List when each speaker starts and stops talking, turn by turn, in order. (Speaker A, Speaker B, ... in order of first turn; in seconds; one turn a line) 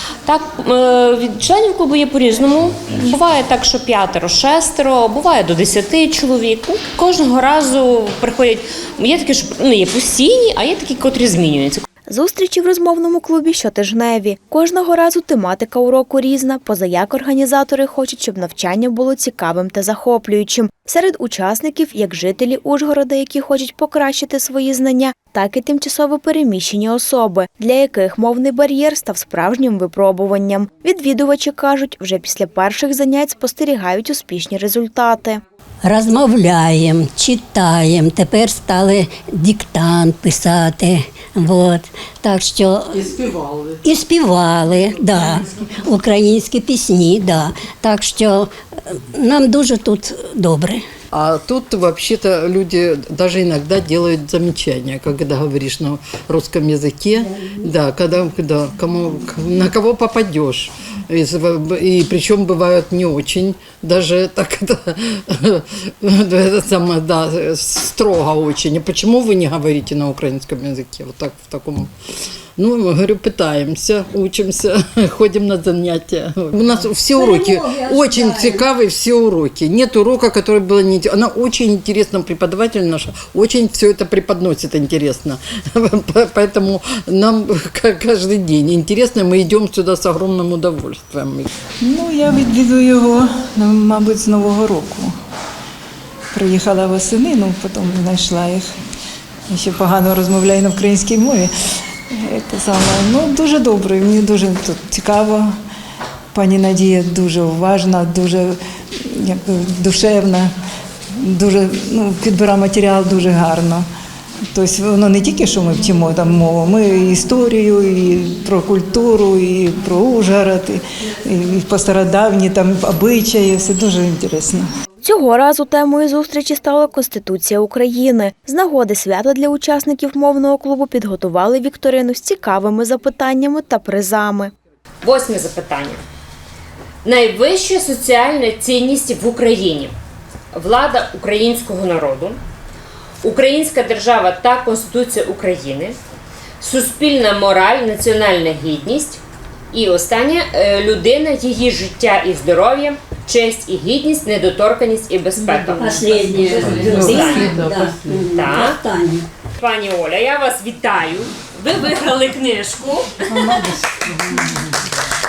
Speaker A: 0.2-11.8
Speaker B: 12.1-35.4
Speaker C: 35.8-43.0
Speaker D: 42.9-43.8
Speaker C: 43.8-50.8
Speaker D: 51.1-71.9
Speaker D: 72.6-91.5
Speaker C: 77.2-78.6
Speaker E: 91.8-95.1
Speaker E: 96.3-98.7
Speaker E: 99.5-101.5
Speaker E: 102.3-105.5
Speaker E: 106.3-108.5
Speaker E: 109.1-110.5
Speaker E: 111.2-113.8
Speaker E: 114.5-124.7
Speaker B: 125.0-134.5
Speaker A: 135.0-136.0
Speaker A: 137.1-139.9
Speaker A: 140.6-142.4
Speaker A: 143.2-146.0
Speaker A: 146.6-149.2
Speaker A: 149.7-158.8
Speaker C: 155.8-159.2
Speaker A: 159.6-163.6